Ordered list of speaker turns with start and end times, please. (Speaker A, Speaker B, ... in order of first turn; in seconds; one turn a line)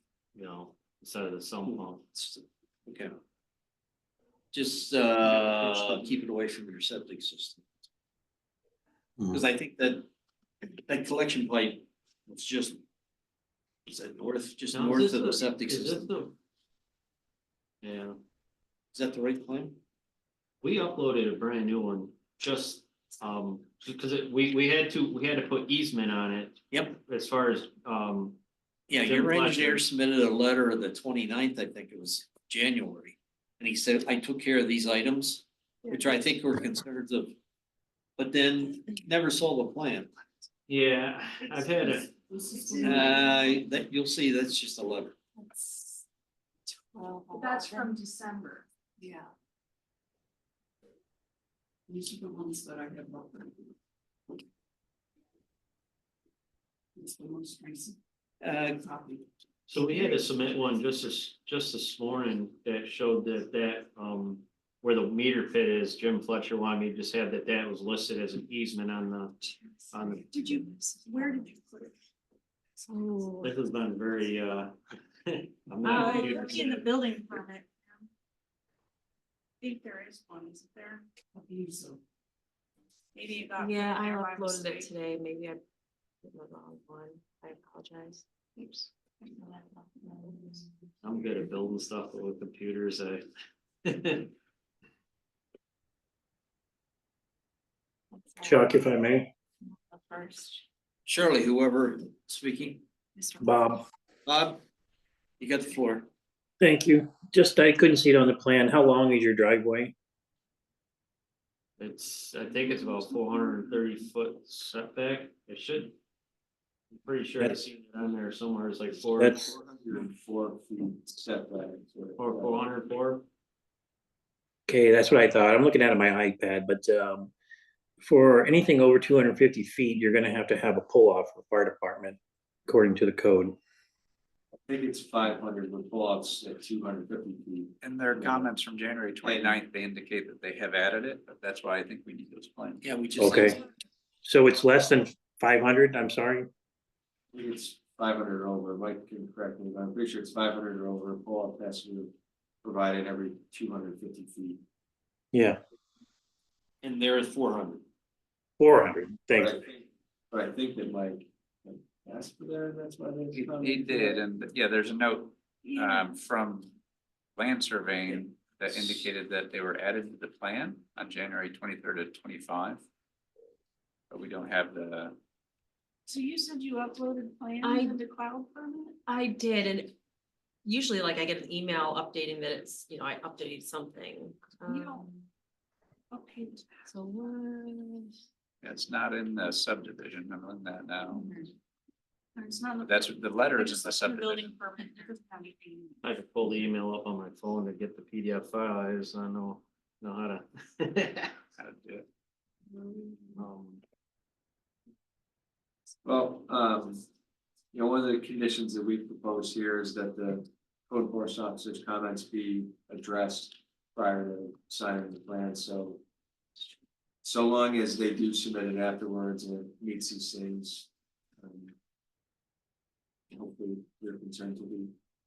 Speaker A: 0.3-2.0
Speaker B: 1.7-3.2
Speaker B: 4.5-7.7
Speaker B: 9.3-10.1
Speaker B: 10.7-12.8
Speaker B: 13.9-16.1
Speaker A: 14.7-16.3
Speaker A: 17.8-18.2
Speaker B: 18.9-19.8
Speaker A: 20.6-28.4
Speaker B: 26.7-27.0
Speaker B: 28.9-37.3
Speaker A: 29.0-29.8
Speaker B: 38.2-40.1
Speaker A: 40.7-42.1
Speaker C: 42.3-43.1
Speaker D: 42.5-43.4
Speaker B: 42.8-45.1
Speaker D: 47.3-48.6
Speaker C: 47.3-47.9
Speaker C: 52.0-53.4
Speaker C: 57.0-57.9
Speaker B: 58.4-58.9
Speaker A: 59.7-70.3
Speaker D: 70.3-71.9
Speaker E: 72.8-73.5
Speaker A: 73.4-76.9
Speaker D: 75.8-78.0
Speaker E: 76.0-76.5
Speaker D: 79.6-81.0
Speaker C: 81.6-81.9
Speaker D: 83.1-84.9
Speaker E: 83.6-85.6
Speaker E: 86.2-88.2
Speaker D: 88.8-89.5
Speaker A: 91.0-93.2
Speaker A: 93.8-94.3
Speaker F: 98.4-99.3
Speaker B: 101.0-102.8
Speaker F: 103.4-103.8
Speaker B: 104.2-104.6
Speaker B: 105.4-106.1
Speaker F: 106.6-109.9
Speaker A: 111.8-116.0
Speaker A: 116.9-119.4
Speaker F: 119.2-119.5
Speaker G: 119.3-122.7
Speaker A: 122.2-123.2
Speaker F: 124.7-127.3
Speaker F: 128.0-133.6
Speaker G: 134.6-138.5
Speaker H: 137.8-142.8
Speaker G: 139.2-139.6
Speaker B: 142.8-143.6
Speaker F: 143.2-143.6
Speaker F: 144.2-146.5
Speaker G: 147.3-154.6
Speaker F: 155.3-155.6
Speaker B: 156.8-157.8
Speaker F: 158.6-159.6
Speaker G: 159.3-164.2
Speaker H: 163.3-166.7
Speaker D: 165.7-166.1
Speaker H: 167.3-172.8
Speaker H: 174.1-175.2
Speaker D: 176.1-178.9
Speaker E: 177.6-178.0
Speaker E: 179.1-179.9
Speaker E: 180.6-185.3
Speaker D: 184.6-185.1
Speaker D: 186.1-186.7
Speaker E: 186.8-188.1
Speaker H: 188.6-191.3
Speaker D: 192.3-196.0
Speaker H: 192.8-194.6
Speaker A: 196.0-201.3
Speaker H: 201.6-202.0
Speaker E: 202.7-203.4
Speaker A: 203.3-203.8
Speaker G: 206.0-207.0
Speaker G: 207.7-216.0
Speaker G: 217.2-221.7
Speaker G: 223.3-224.9